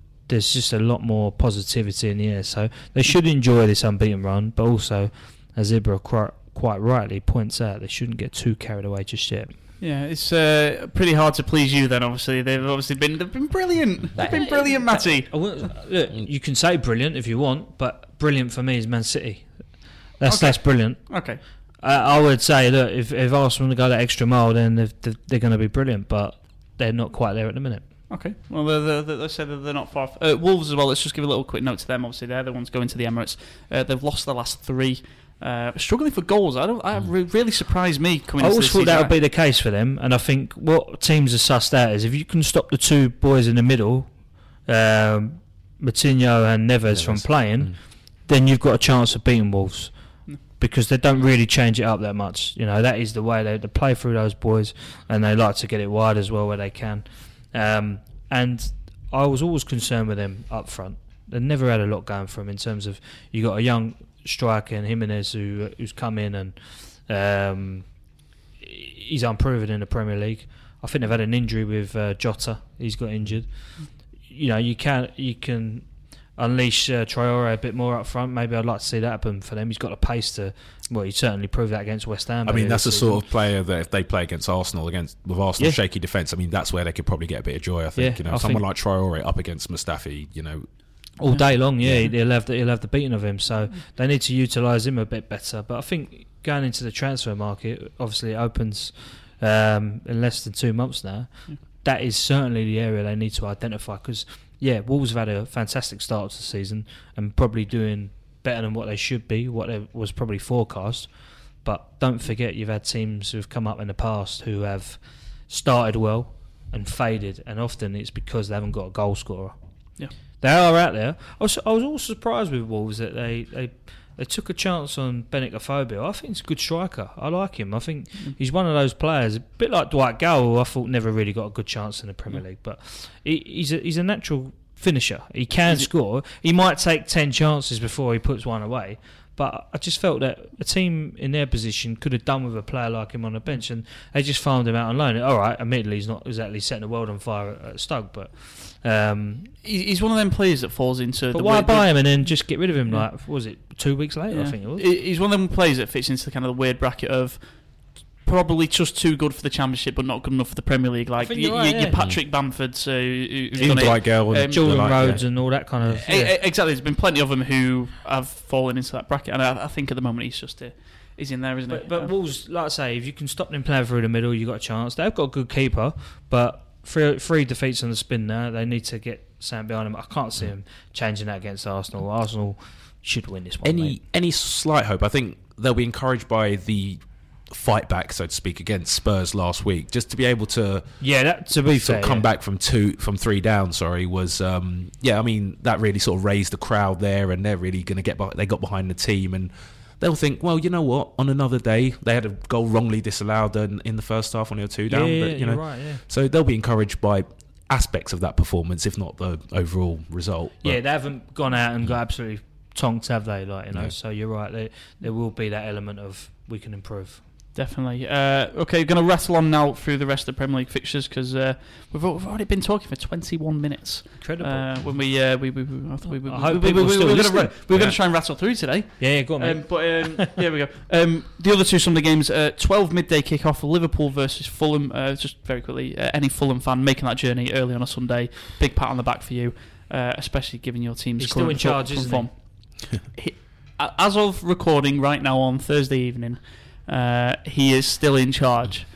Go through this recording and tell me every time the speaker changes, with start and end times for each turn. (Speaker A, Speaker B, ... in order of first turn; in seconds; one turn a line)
Speaker A: 0.3-9.5
Speaker B: 9.8-15.7
Speaker A: 14.2-27.9
Speaker B: 20.2-21.4
Speaker B: 28.1-39.1
Speaker A: 38.4-68.0
Speaker C: 46.9-47.8
Speaker A: 68.6-83.2
Speaker C: 82.5-91.2
Speaker A: 88.0-88.7
Speaker A: 91.2-119.6
Speaker C: 91.8-92.1
Speaker A: 120.4-149.5
Speaker B: 149.6-153.1
Speaker A: 151.3-154.9
Speaker B: 154.3-172.1
Speaker A: 161.2-162.0
Speaker C: 162.0-162.2
Speaker A: 163.5-166.4
Speaker C: 163.6-165.8
Speaker A: 171.7-184.0
Speaker C: 183.6-211.1
Speaker A: 191.0-192.3
Speaker A: 204.9-206.0
Speaker A: 210.6-217.2
Speaker B: 217.6-248.9
Speaker A: 224.2-225.1
Speaker A: 226.2-230.3
Speaker A: 241.2-242.3